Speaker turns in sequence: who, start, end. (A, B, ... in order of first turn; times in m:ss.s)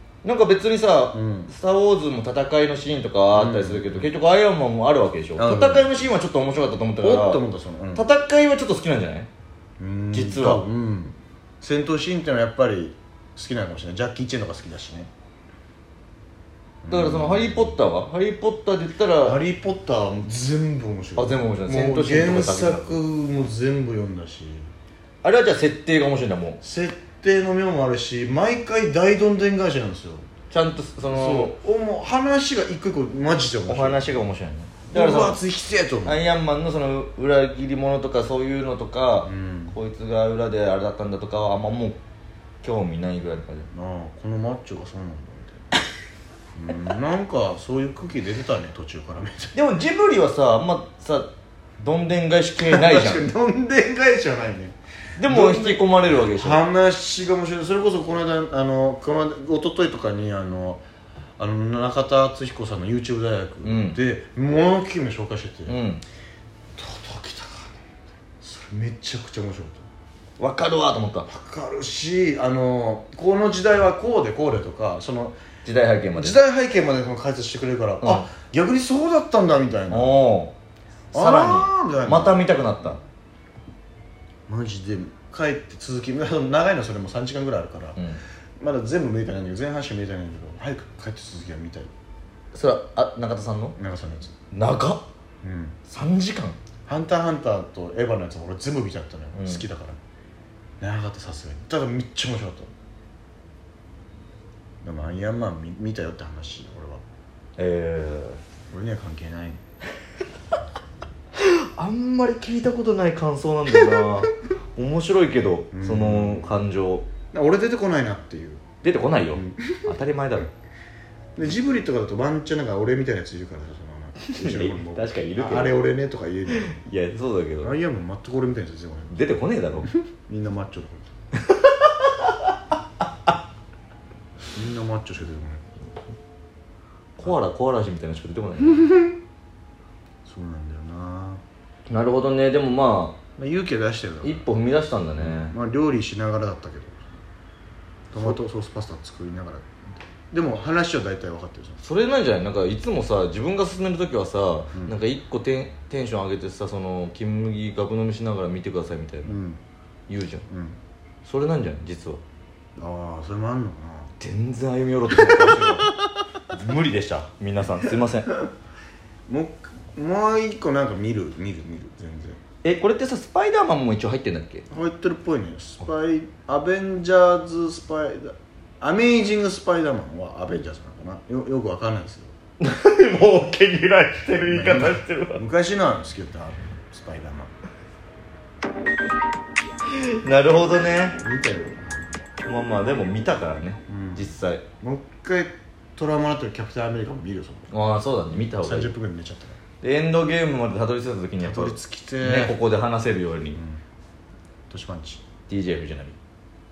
0:00.2-0:07.4 A
0:01.1-0:01.5 B
0:03.3-0:04.1 B
0:05.4-0:06.1 B
0:07.0-0:08.0 B
0:07.9-0:09.3 A
0:09.8-0:15.1 B
0:10.1-0:10.6 A
0:16.8-0:17.8 B
0:16.9-0:19.4 A
0:19.2-0:24.7 B
0:21.2-0:23.0 A
0:25.2-0:26.6 A
0:26.6-0:30.2 B
0:30.5-0:31.5 A
0:31.1-0:34.1 B
0:33.7-0:35.4 A
0:34.9-0:36.2 B
0:36.0-0:42.0 A
0:39.2-0:39.8 B
0:42.6-0:43.7 A
0:43.7-0:45.8 B
0:46.6-0:49.5 B
0:49.5-0:53.2 A
0:52.6-1:00.8 B
0:55.2-0:56.6 A
1:01.4-1:05.8 B
1:03.6-1:04.0 A
1:05.7-1:06.0 A
1:06.8-1:07.7 B
1:08.4-1:09.9 B
1:10.4-1:11.3 A
1:11.2-1:15.4 B
1:15.6-1:16.4 A
1:16.1-1:20.1 B
1:18.0-1:18.3 A
1:19.9-1:20.5 A
1:21.1-1:23.0 A
1:21.1-1:22.9 B
1:24.5-1:28.0 B
1:28.0-1:28.2 A
1:28.6-1:31.9 B
1:32.5-1:33.8 A
1:33.8-1:34.3 B
1:34.5-1:35.0 A
1:35.4-1:35.8 B
1:35.9-1:36.6 A
1:36.8-1:40.0 B
1:39.3-1:39.6 A
1:40.8-1:42.7 B
1:44.8-1:47.0 B
1:47.6-1:48.4 A
1:48.7-1:49.6 B
1:51.4-1:57.1 A
1:55.7-1:56.6 B
1:57.3-1:58.6 B
1:58.8-2:00.5 A
1:59.3-1:59.9 B
2:01.4-2:06.8 B
2:04.3-2:05.8 A
2:06.5-2:07.7 A
2:07.6-2:09.3 B
2:09.1-2:09.9 A
2:09.8-2:11.1 B
2:11.4-2:12.4 A
2:14.5-2:15.8 B
2:17.2-2:18.8 A
2:20.2-2:21.4 B
2:21.9-2:23.2 A
2:23.4-2:24.5 B
2:24.2-2:25.5 A
2:25.2-2:27.0 B
2:28.1-2:31.8 B
2:31.8-2:39.4 A
2:39.2-2:39.6 B
2:40.1-2:40.4 A
2:40.5-2:40.8 B
2:41.2-2:42.2 A
2:42.8-2:44.1 B
2:44.2-2:45.9 A
2:45.3-2:45.7 B
2:46.5-2:48.3 A
2:49.3-2:52.4 B
2:52.6-2:54.6 A
2:54.7-3:02.3 B
3:02.6-3:05.4 A
3:04.4-3:07.5 B
3:09.9-3:11.2 A
3:11.2-3:12.3 B
3:12.4-3:14.6 A
3:13.9-3:17.7 B
3:17.7-3:18.9 A
3:18.3-3:19.6 B
3:19.8-3:23.6 A
3:21.4-3:22.6 B
3:23.5-3:23.8 B
3:24.7-3:25.2 B
3:25.5-3:26.2 A